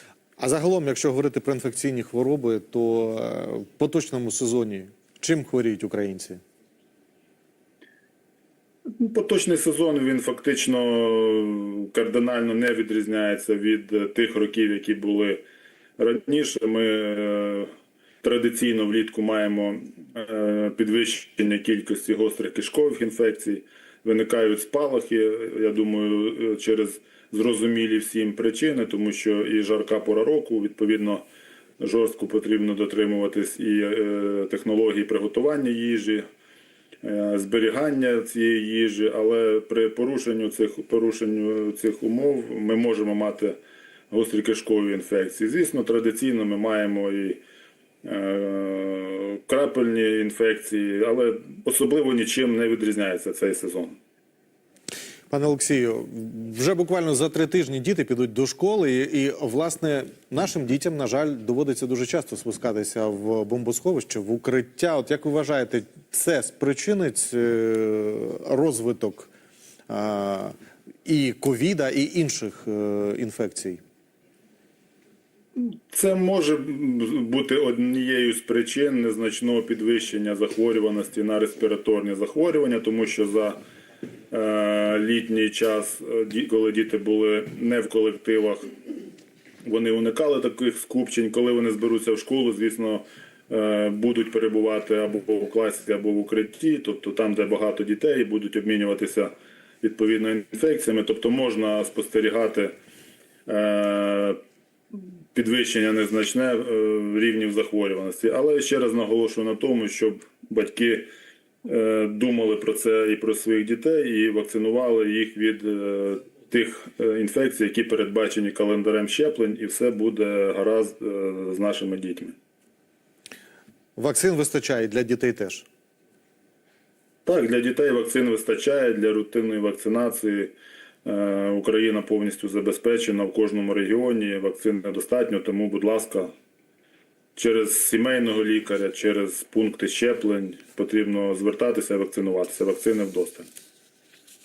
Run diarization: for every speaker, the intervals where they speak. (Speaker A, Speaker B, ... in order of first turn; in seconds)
Speaker A: 0.4-6.4, 55.3-69.3, 69.9-73.8, 124.0-125.7
Speaker B: 9.0-15.4, 16.0-17.7, 18.2-31.2, 31.8-36.2, 37.0-43.6, 44.1-47.4, 48.0-54.0, 75.5-83.6, 84.3-88.7, 89.6-102.7, 103.5-104.4, 105.3-111.1, 111.6-122.3, 127.2-136.3, 137.3-143.5